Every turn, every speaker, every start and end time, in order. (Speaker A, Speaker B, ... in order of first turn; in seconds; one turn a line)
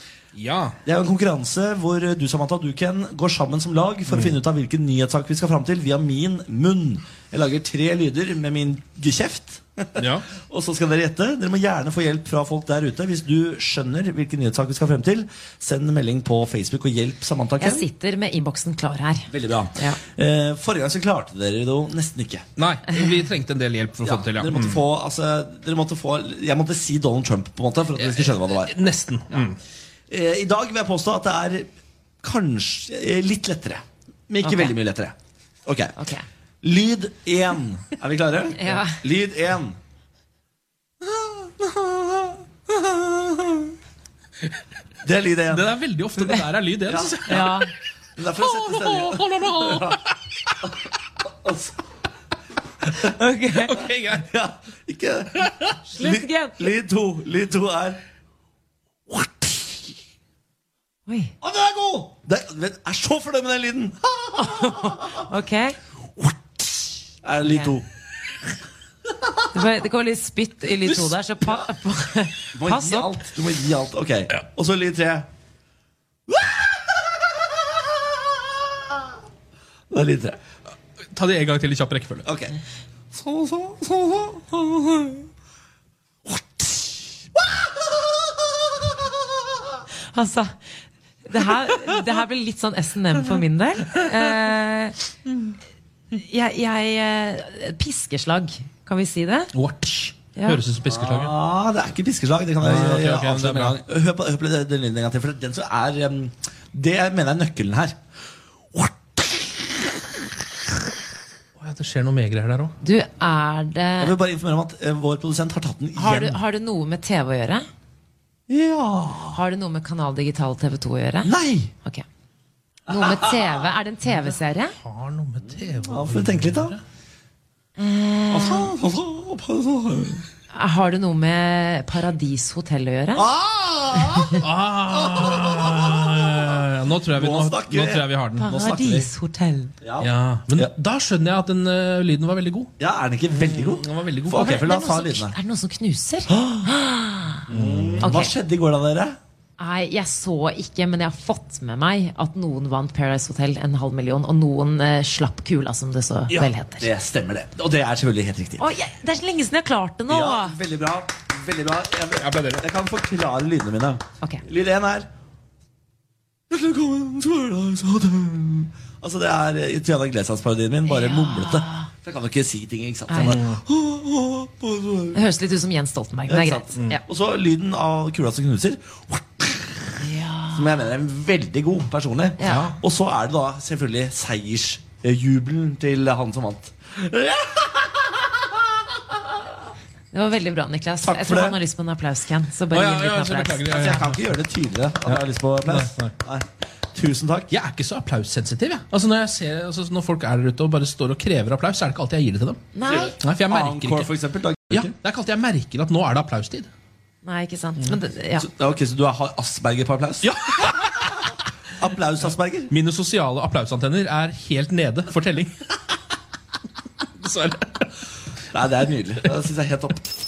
Speaker A: 0.3-0.8
Speaker B: 0.8-17.9
Speaker A: 4.1-4.3
Speaker A: 10.0-10.3
Speaker C: 17.6-20.0
Speaker B: 19.3-22.5
Speaker A: 22.6-24.8
Speaker B: 24.0-28.7
Speaker A: 28.0-29.6
Speaker B: 30.1-31.7
Speaker B: 32.2-35.9
Speaker C: 34.4-34.7
Speaker C: 36.0-36.2
Speaker B: 36.6-39.8
Speaker C: 38.5-39.0
Speaker B: 41.0-43.7
Speaker B: 45.0-45.7
Speaker A: 45.5-47.6
Speaker B: 46.9-47.6
Speaker C: 47.3-47.7
Speaker B: 48.1-50.0
Speaker A: 48.4-50.1
Speaker B: 51.4-51.8
Speaker C: 53.0-53.8
Speaker A: 53.6-54.3
Speaker B: 54.1-58.0
Speaker C: 55.9-56.7
Speaker B: 59.1-59.9
Speaker C: 61.1-61.3
Speaker B: 61.4-65.2
Speaker C: 64.3-65.8
Speaker B: 66.2-67.9
Speaker C: 67.4-67.7
Speaker C: 69.5-73.2
Speaker B: 72.5-75.3
Speaker B: 76.3-79.0
Speaker B: 79.9-80.4
Speaker A: 81.1-82.3
Speaker B: 82.2-82.5
Speaker B: 83.1-85.2
Speaker B: 86.2-89.7
Speaker C: 90.1-90.6
Speaker C: 91.2-95.0
Speaker C: 96.1-99.5
Speaker A: 99.5-101.3
Speaker B: 100.8-108.0
Speaker A: 102.6-103.8
Speaker B: 108.7-109.8
Speaker A: 111.6-112.7
Speaker C: 112.8-114.1
Speaker B: 114.0-116.4
Speaker C: 116.0-117.7
Speaker B: 118.5-119.4
Speaker C: 119.3-121.3
Speaker B: 121.2-121.7
Speaker C: 122.9-124.8
Speaker B: 122.9-123.4
Speaker A: 124.8-126.8
Speaker B: 125.8-126.8
Speaker C: 127.8-128.7
Speaker B: 128.3-130.2
Speaker C: 130.5-133.3
Speaker B: 133.1-139.1
Speaker A: 134.4-138.5
Speaker C: 138.4-139.7
Speaker B: 139.8-140.7
Speaker A: 140.0-142.7
Speaker B: 142.8-145.3
Speaker A: 143.3-144.5
Speaker C: 144.3-147.5
Speaker B: 146.3-146.7
Speaker A: 147.5-148.1
Speaker B: 147.5-149.2
Speaker C: 148.0-148.3
Speaker C: 149.6-156.9
Speaker B: 156.8-158.6
Speaker C: 158.6-160.6
Speaker B: 160.1-165.1
Speaker A: 162.2-162.6
Speaker B: 166.5-175.2
Speaker C: 170.8-171.9
Speaker C: 173.1-173.4
Speaker A: 173.2-173.6
Speaker C: 175.1-177.0
Speaker B: 176.3-189.2
Speaker C: 180.0-180.7
Speaker C: 182.4-182.7
Speaker A: 182.4-182.8
Speaker C: 190.1-193.9
Speaker B: 191.0-191.6
Speaker A: 192.7-194.3
Speaker B: 193.7-197.5
Speaker A: 195.1-196.1
Speaker A: 197.5-202.7
Speaker C: 202.7-203.1
Speaker B: 202.8-204.9
Speaker A: 203.2-204.1
Speaker A: 204.7-206.7
Speaker C: 207.2-208.5
Speaker B: 208.4-210.3
Speaker A: 210.2-210.7
Speaker B: 211.8-212.7
Speaker A: 212.7-215.5
Speaker A: 217.2-217.8
Speaker B: 218.5-220.0